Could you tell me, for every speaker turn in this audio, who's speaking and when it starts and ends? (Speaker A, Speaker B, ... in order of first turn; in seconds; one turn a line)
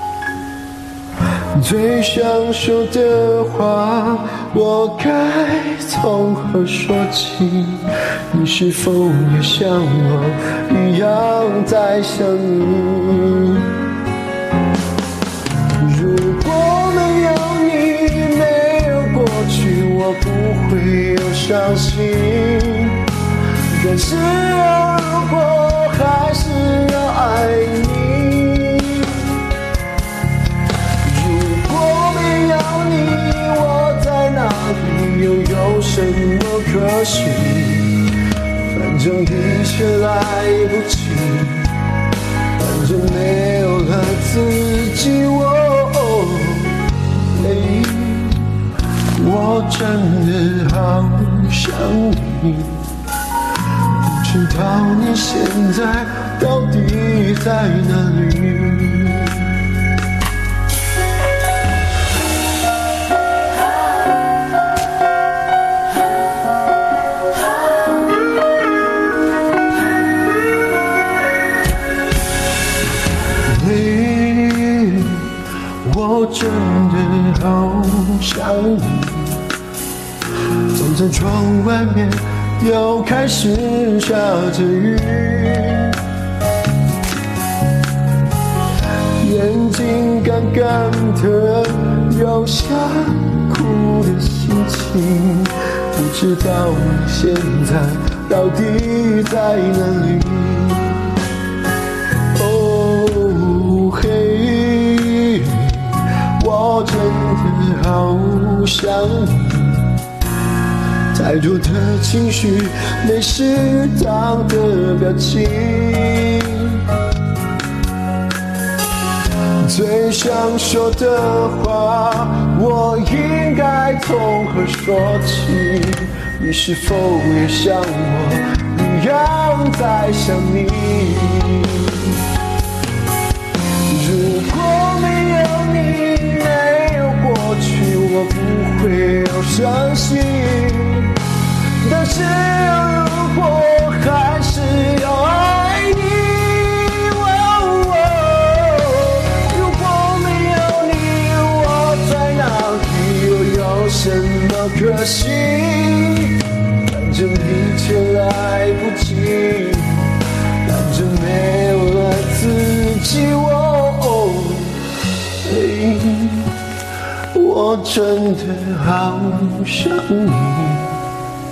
Speaker A: 1.6-13.7
Speaker A: 15.8-23.0
Speaker A: 23.7-29.3
Speaker A: 31.0-38.0
Speaker A: 38.7-41.7
Speaker A: 42.6-46.8
Speaker A: 47.4-48.4
Speaker A: 49.2-52.8
Speaker A: 54.0-59.5
Speaker A: 73.5-75.3
Speaker A: 75.8-79.4
Speaker A: 80.7-86.0
Speaker A: 89.2-101.0
Speaker A: 102.3-109.9
Speaker A: 111.1-116.8
Speaker A: 119.6-132.2
Speaker A: 133.9-141.1
Speaker A: 141.8-160.1
Speaker A: 160.7-164.8
Speaker A: 165.4-166.5
Speaker A: 167.3-170.9